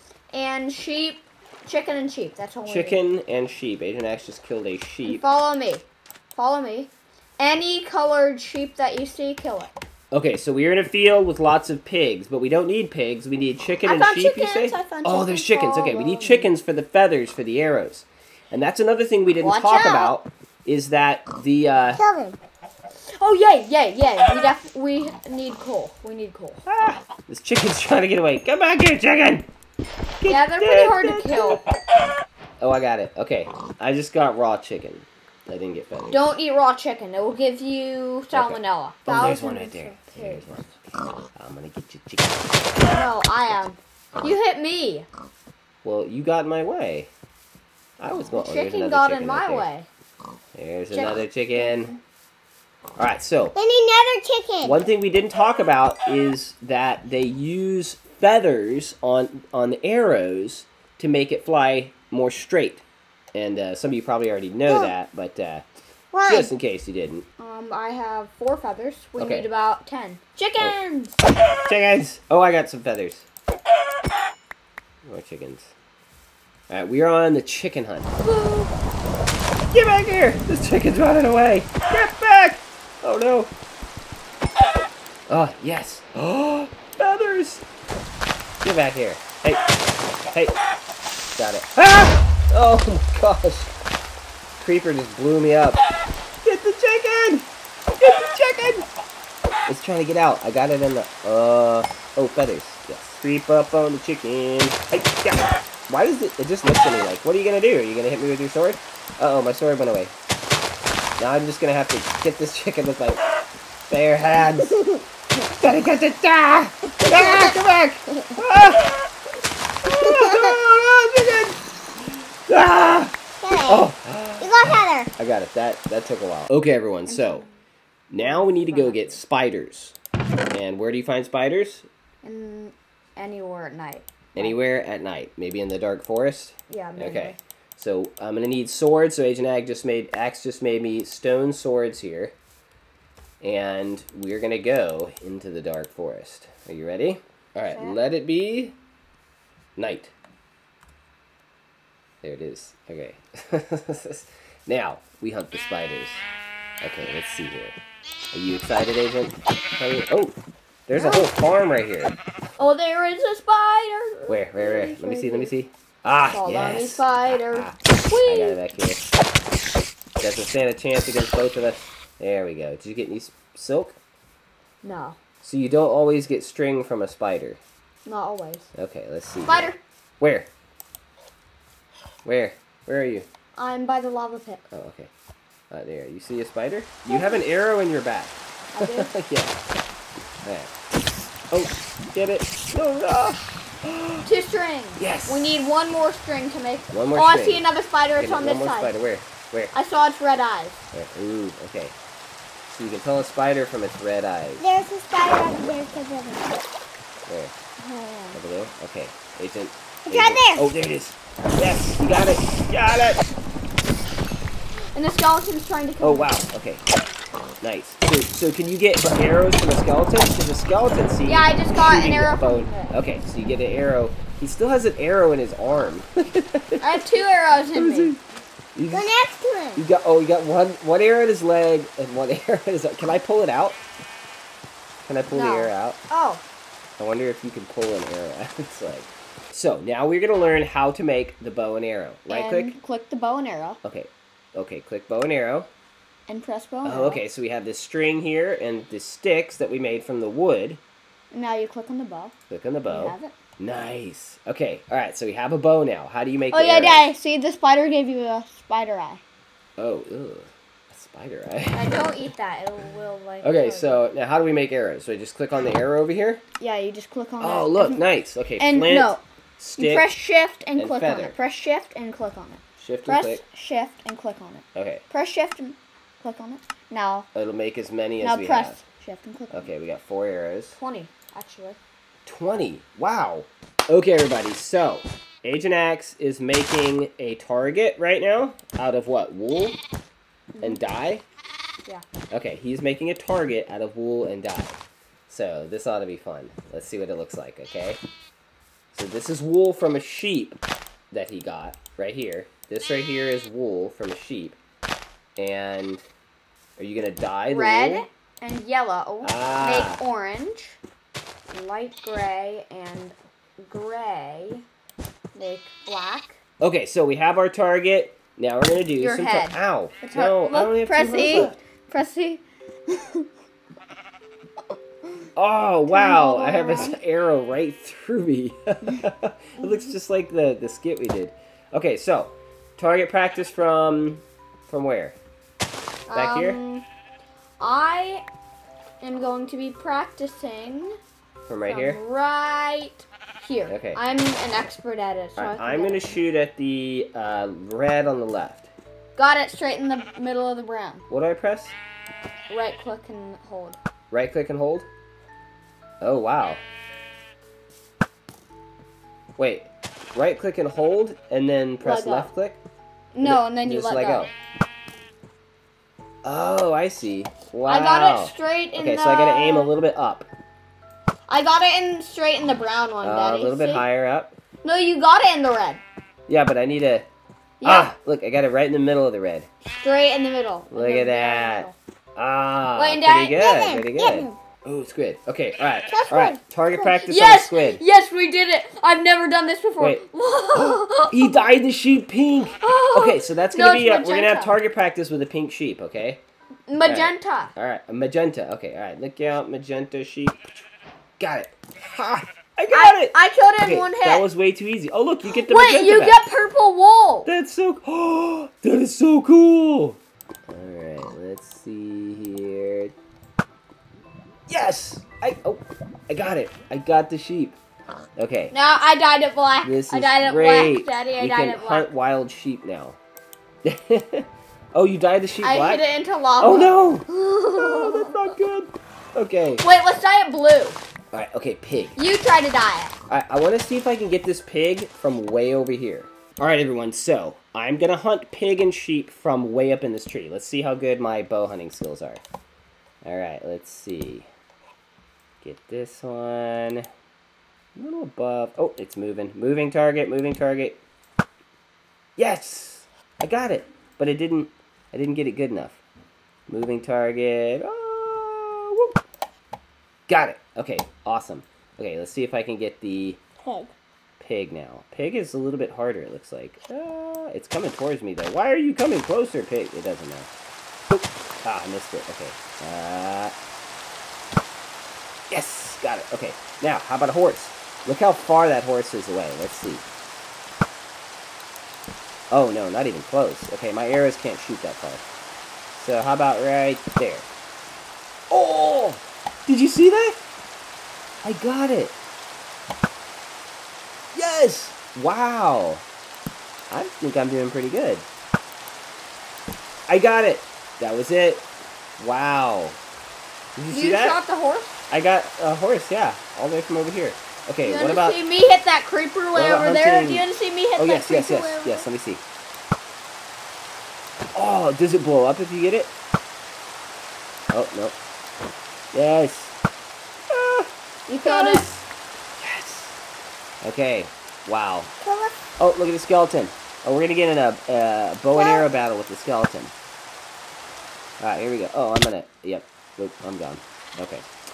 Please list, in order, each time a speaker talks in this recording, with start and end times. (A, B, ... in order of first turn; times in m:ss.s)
0:00.3-0:03.0 A
0:02.6-0:05.2 B
0:05.0-0:09.7 A
0:10.1-0:22.0 B
0:13.8-0:16.5 A
0:19.4-0:20.2 A
0:21.9-0:22.4 C
0:23.1-0:26.6 A
0:26.7-0:29.5 B
0:30.2-0:31.6 B
0:30.3-0:31.6 A
0:32.6-0:36.2 B
0:36.1-0:40.4 A
0:38.3-0:40.7 B
0:41.4-0:42.8 B
0:42.8-0:45.1 A
0:45.8-0:47.1 B
0:48.0-0:49.7 B
0:48.3-0:49.9 A
0:50.6-0:51.9 B
0:50.9-0:52.0 A
0:53.0-0:53.5 B
0:53.6-0:54.8 C
0:54.6-1:02.8 B
1:03.3-1:05.6 B
1:06.1-1:06.5 C
1:06.2-1:07.3 B
1:07.4-1:11.2 A
1:09.2-1:09.5 B
1:11.7-1:13.3 B
1:15.0-1:15.7 B
1:16.7-1:18.1 B
1:18.2-1:18.7 A
1:19.7-1:23.5 B
1:25.3-1:27.6 B
1:28.6-1:29.6 B
1:30.3-1:30.6 B
1:31.4-1:33.7 B
1:34.6-1:35.8 B
1:36.4-1:37.5 B
1:38.0-1:38.9 B
1:39.7-1:50.1 B
1:51.2-1:53.2 B
1:53.9-1:54.8 B
1:55.6-1:59.1 B
1:59.8-2:01.6 B
2:02.5-2:03.1 B
2:03.4-2:03.9 C
2:03.7-2:07.4 B
2:04.4-2:05.1 C
2:07.1-2:07.5 A
2:08.1-2:10.0 B
2:08.2-2:09.2 A
2:10.5-2:11.9 B
2:12.2-2:14.6 A
2:14.4-2:22.3 B
2:16.7-2:17.4 A
2:23.4-2:28.8 B
2:29.8-2:30.1 B
2:32.2-2:36.2 B
2:36.8-2:37.8 B
2:38.3-2:40.4 B
2:40.9-2:42.2 B
2:41.0-2:41.3 A
2:42.6-2:45.5 A
2:44.3-2:49.1 B
2:46.3-2:48.6 A
2:50.2-2:54.0 B
2:54.8-2:55.2 A
2:55.4-2:57.6 B
2:58.1-2:58.7 A
2:58.8-3:00.5 B
2:59.5-2:59.8 A
3:02.2-3:03.3 B
3:03.6-3:04.6 A
3:04.7-3:05.1 B
3:05.7-3:09.6 B
3:07.1-3:07.4 A
3:08.7-3:09.1 A
3:10.4-3:10.7 B
3:11.5-3:14.3 B
3:14.3-3:18.9 A
3:15.0-3:15.6 B
3:16.9-3:17.6 B
3:18.2-3:19.7 B
3:19.7-3:20.8 A
3:20.9-3:22.0 B
3:22.7-3:24.7 B
3:24.6-3:26.6 C
3:27.3-3:27.5 B
3:27.8-3:28.4 A
3:28.3-3:33.2 B
3:30.0-3:30.6 C
3:34.9-3:36.4 A
3:36.0-3:36.8 B
3:37.6-3:47.0 B
3:41.3-3:42.9 A
3:46.8-3:48.1 A
3:47.7-3:48.2 B
3:48.8-3:49.1 B
3:48.9-3:49.8 C
3:49.8-3:53.8 B
3:55.1-3:56.0 B
3:55.3-3:56.4 A
3:57.0-4:02.8 B
4:02.3-4:03.8 A
4:03.8-4:05.7 B
4:06.3-4:07.2 A
4:06.8-4:10.8 B
4:11.3-4:12.3 A
4:12.5-4:17.1 B
4:12.9-4:13.3 A
4:16.5-4:19.2 A
4:19.8-4:22.2 B
4:21.8-4:24.0 A
4:23.4-4:26.4 B
4:26.6-4:28.0 A
4:27.4-4:30.1 B
4:28.6-4:29.2 A
4:29.8-4:37.3 A
4:30.8-4:31.4 B
4:32.8-4:33.4 B
4:34.8-4:35.0 B
4:37.4-4:38.8 B
4:38.2-4:39.7 A
4:39.5-4:40.8 B
4:40.8-4:41.8 A
4:42.3-4:49.8 B
4:50.5-4:50.8 A
4:50.6-4:51.2 B
4:52.3-4:58.0 B
4:58.9-5:00.6 B
5:01.1-5:04.6 B
5:05.4-5:06.0 B
5:06.8-5:08.1 B
5:07.5-5:10.8 A
5:09.2-5:10.0 B
5:11.5-5:14.6 A
5:15.4-5:16.4 A
5:16.6-5:21.6 B
5:19.0-5:23.3 A
5:25.4-5:35.2 B
5:25.9-5:27.0 A
5:36.1-5:36.8 A
5:36.1-5:36.6 B
5:37.6-5:38.3 A
5:39.0-5:41.0 A
5:41.5-5:42.0 B
5:41.7-5:46.2 A
5:43.7-5:44.0 B
5:45.4-5:48.7 B
5:49.2-5:51.0 A
5:51.1-5:51.8 B
5:52.5-5:53.8 A
5:54.1-5:54.9 B
5:56.0-5:56.6 B
5:59.4-6:02.6 B
6:01.8-6:02.3 A
6:03.1-6:04.3 A
6:03.2-6:04.3 B
6:06.2-6:10.3 B
6:07.7-6:09.7 A
6:11.3-6:13.8 A
6:13.0-6:14.4 B
6:14.6-6:15.8 A
6:16.3-6:17.1 B
6:17.6-6:17.9 A
6:17.6-6:19.5 B
6:19.8-6:21.8 A
6:20.7-6:27.8 B
6:22.8-6:23.5 A
6:23.4-6:24.4 C
6:25.9-6:31.5 A
6:29.8-6:36.2 B
6:32.6-6:34.6 A
6:36.7-6:37.5 A
6:36.8-6:40.5 B
6:41.2-6:46.2 B
6:42.7-6:44.3 A
6:45.4-6:47.3 A
6:47.3-6:52.9 B
6:54.5-6:57.6 B
6:58.2-6:58.5 B
6:58.5-7:01.9 A
6:59.6-7:03.0 B
7:03.6-7:05.8 B
7:05.4-7:08.3 A
7:06.4-7:09.6 B
7:09.6-7:10.8 A
7:11.1-7:12.0 B
7:12.0-7:12.9 A
7:13.1-7:22.2 B
7:23.0-7:24.3 B
7:25.4-7:26.9 B
7:27.8-7:30.8 B
7:32.2-7:35.8 B
7:36.5-7:39.0 B
7:40.1-7:43.2 B
7:43.4-7:43.7 C
7:44.2-7:50.3 B
7:50.9-7:53.3 B
7:55.3-7:59.9 B
8:02.3-8:05.0 B
8:05.8-8:07.3 B
8:08.3-8:10.2 B
8:11.2-8:12.0 B
8:14.1-8:15.8 B
8:16.7-8:18.1 B
8:19.9-8:21.5 B
8:22.0-8:22.8 B
8:23.6-8:24.2 B
8:23.7-8:24.7 A
8:24.9-8:28.2 B
8:27.6-8:31.8 A
8:29.3-8:30.2 B
8:30.8-8:32.2 B
8:34.3-8:35.9 B
8:37.5-8:38.0 B
8:38.9-8:39.5 B
8:40.3-8:41.7 B
8:41.1-8:41.8 A
8:42.4-8:43.0 B
8:43.6-8:44.9 B
8:45.0-8:45.4 A
8:45.6-8:49.7 B
8:48.3-8:48.7 A
8:51.2-8:54.3 B